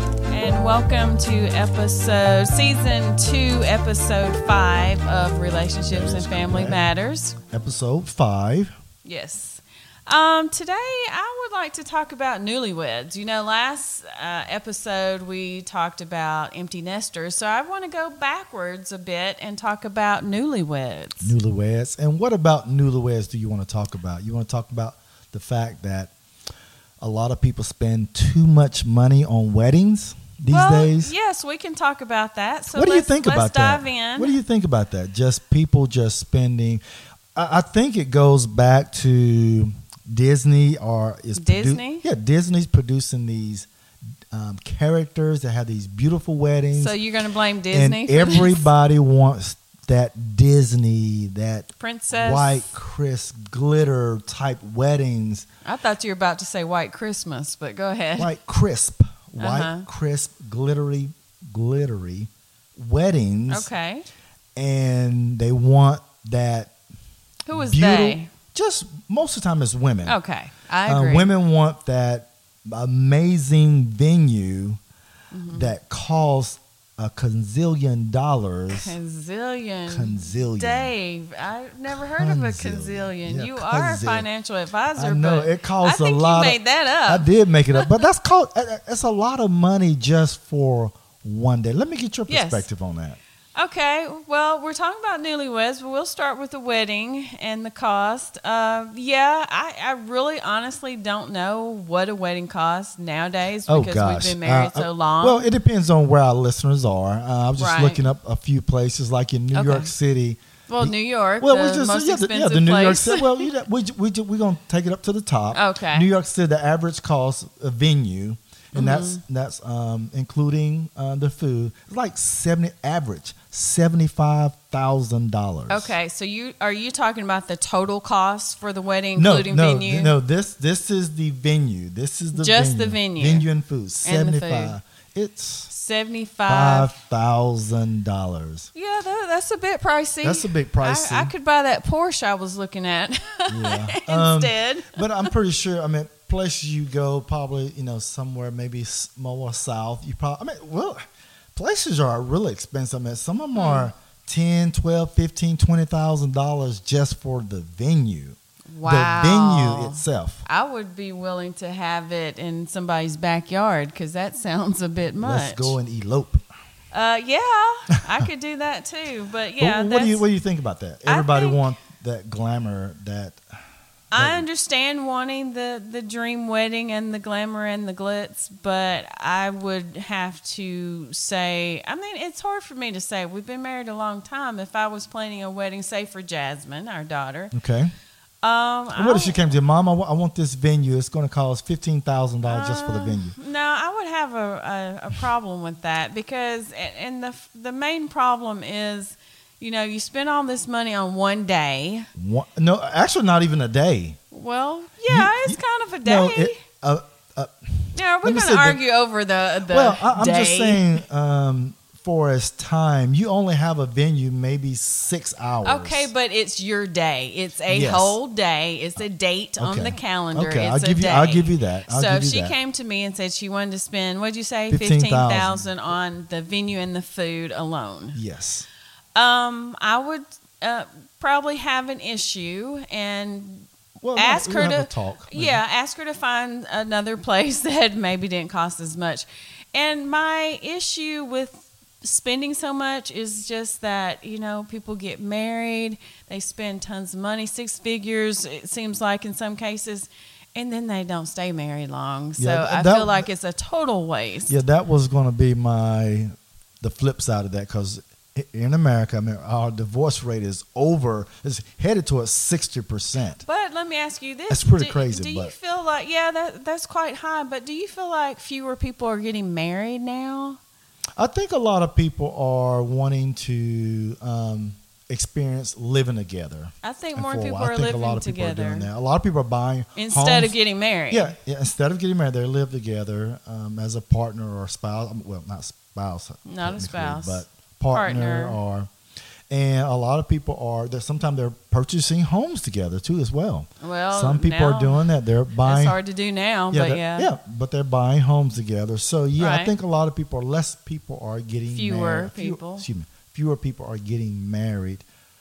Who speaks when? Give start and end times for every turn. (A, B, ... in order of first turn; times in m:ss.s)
0:00.3-0:07.4 A
0:05.9-0:06.9 B
0:07.5-0:08.7 B
0:09.0-0:21.3 A
0:21.2-0:26.1 B
0:27.0-0:31.2 B
0:30.5-0:34.4 A
0:32.7-0:36.8 B
0:37.4-0:43.7 B
0:41.4-0:42.0 A
0:44.3-0:47.0 B
0:46.7-0:48.7 A
0:47.7-0:55.5 B
0:51.8-0:52.7 A
0:55.6-0:58.3 A
0:58.2-1:03.7 B
0:59.4-0:59.8 A
1:03.5-1:04.1 A
1:04.6-1:06.8 B
1:07.5-1:08.3 A
1:07.5-1:10.2 B
1:10.0-1:11.3 A
1:10.9-1:14.8 B
1:15.3-1:15.7 A
1:15.5-1:18.9 B
1:18.7-1:28.0 A
1:19.9-1:20.9 B
1:22.0-1:24.3 B
1:25.0-1:33.2 B
1:32.3-1:32.7 A
1:33.6-1:45.4 A
1:43.7-2:06.0 B
1:47.6-1:48.0 A
1:49.5-1:49.9 A
1:50.7-1:53.5 A
1:55.5-1:56.1 A
1:58.8-1:59.2 A
2:05.7-2:10.2 A
2:09.2-2:15.7 B
2:12.3-2:13.5 A
2:14.0-2:14.8 A
2:15.7-2:16.9 A
2:16.5-2:18.7 B
2:18.7-2:25.3 A
2:20.2-2:21.3 B
2:23.5-2:31.0 B
2:31.6-2:40.4 B
2:33.6-2:33.9 A
2:38.7-2:45.8 A
2:45.2-2:46.4 B
2:46.9-2:50.2 A
2:49.6-2:53.4 B
2:51.0-2:51.6 A
2:54.1-3:07.5 A
2:54.2-2:54.5 B
3:07.5-3:07.9 B
3:08.4-3:09.6 A
3:08.9-3:13.4 B
3:12.5-3:22.1 A
3:22.2-3:24.2 B
3:24.3-3:26.6 A
3:25.1-3:28.8 B
3:28.0-3:31.0 A
3:29.7-3:36.1 B
3:35.6-3:48.2 A
3:37.7-3:38.2 B
3:39.6-3:42.6 B
3:44.7-3:45.7 B
3:48.2-3:48.7 B
3:49.2-4:14.6 A
3:54.0-3:55.6 B
4:12.4-4:13.3 B
4:14.5-4:23.4 B
4:23.4-4:30.6 A
4:24.5-4:25.5 B
4:31.2-4:40.6 B
4:36.8-4:38.9 A
4:40.0-4:41.4 A
4:41.1-4:48.9 B
4:46.4-4:48.6 A
4:49.5-4:56.0 B
4:53.8-4:57.3 A
4:56.7-5:05.0 B
4:59.4-4:59.7 A
5:01.7-5:02.9 A